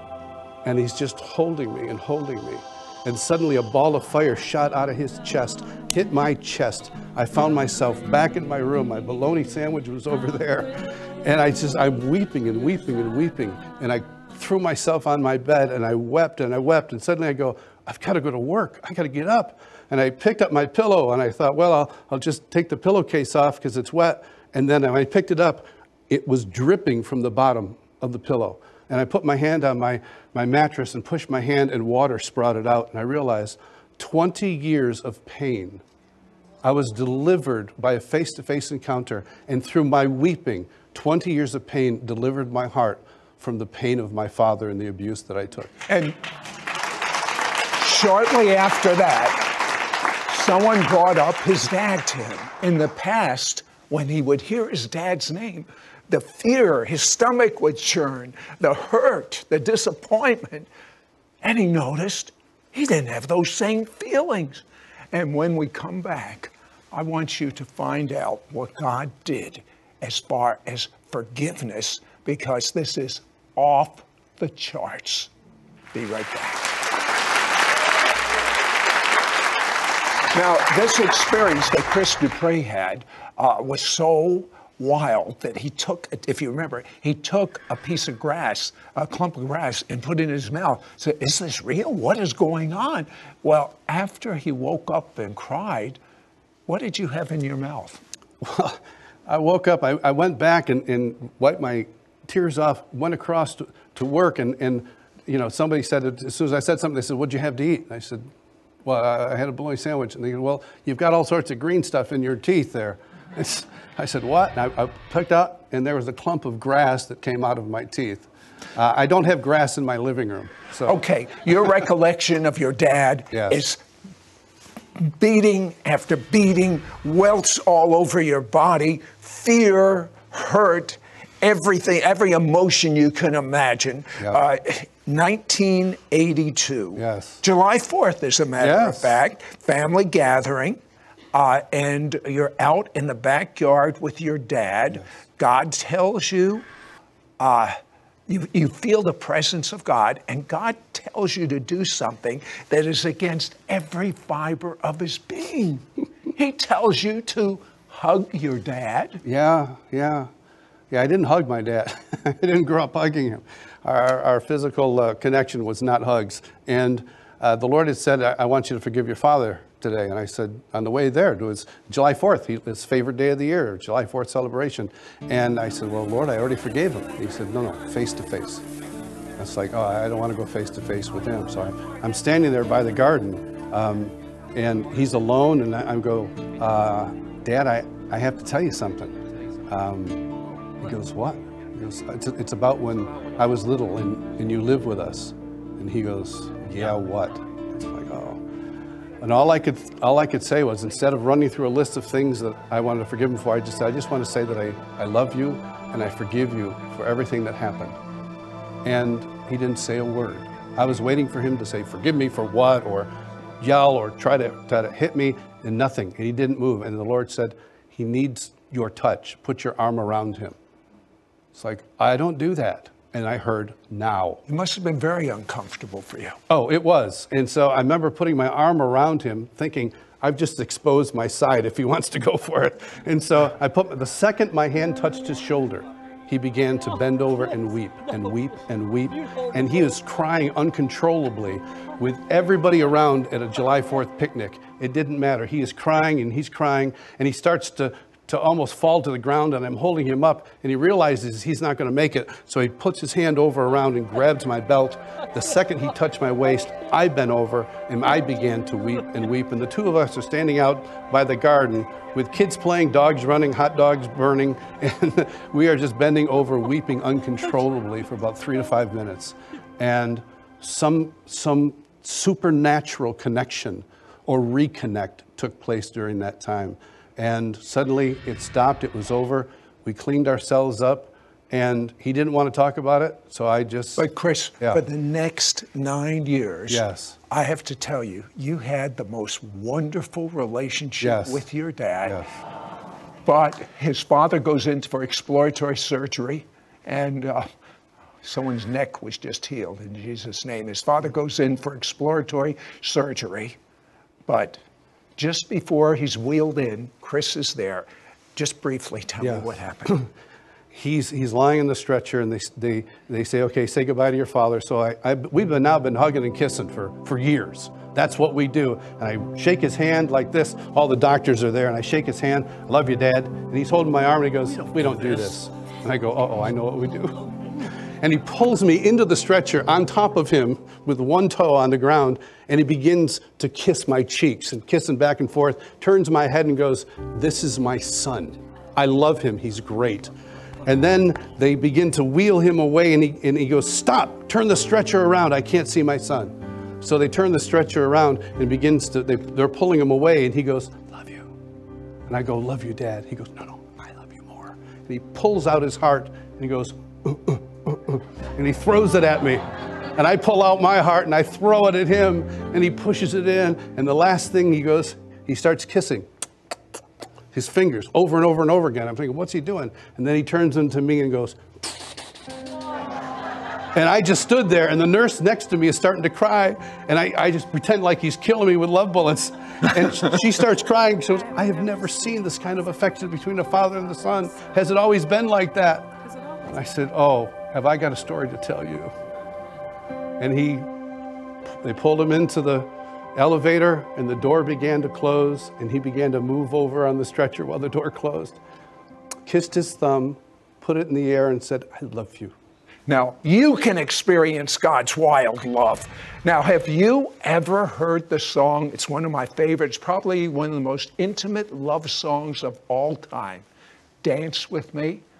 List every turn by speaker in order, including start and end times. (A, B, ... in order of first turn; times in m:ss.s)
0:00.6-0:35.8 A
0:36.6-0:45.7 A
0:45.9-0:46.2 B
0:47.7-0:49.6 B
0:50.3-1:00.7 B
1:01.4-1:15.3 B
1:15.9-1:16.7 B
1:20.3-1:36.0 B
1:36.7-1:38.0 B
1:38.4-1:48.2 A
1:48.8-2:01.0 A
2:00.8-2:03.8 B
2:03.3-2:03.6 A
2:05.0-2:20.8 B
2:17.0-2:17.4 A
2:18.6-2:19.2 A
2:21.3-2:26.6 B
2:27.4-2:27.8 B
2:28.3-2:39.2 B
2:39.2-2:40.3 A
2:40.9-2:58.6 A
2:59.4-3:09.1 A
3:09.7-3:10.2 A
3:10.8-3:18.4 A
3:19.2-3:28.0 A
3:28.8-3:40.5 A
3:41.5-3:44.4 A
3:44.5-3:46.4 B
3:46.5-4:44.0 A
4:44.0-4:52.2 B
4:46.7-4:47.2 A
4:51.0-4:51.4 A
4:53.2-4:57.5 B
4:58.2-5:03.6 B
5:04.3-5:04.6 B
5:05.2-5:10.0 B
5:09.2-5:10.1 A
5:10.7-5:27.3 A
5:28.0-5:40.1 A
5:40.6-5:51.3 A
5:52.1-5:59.4 A
5:59.9-6:06.0 A
6:07.3-6:12.0 A
6:13.7-6:28.9 A
6:30.2-6:30.7 A
6:31.6-6:38.4 A
6:39.2-6:42.3 A
6:42.9-6:53.4 B
6:54.0-6:55.0 B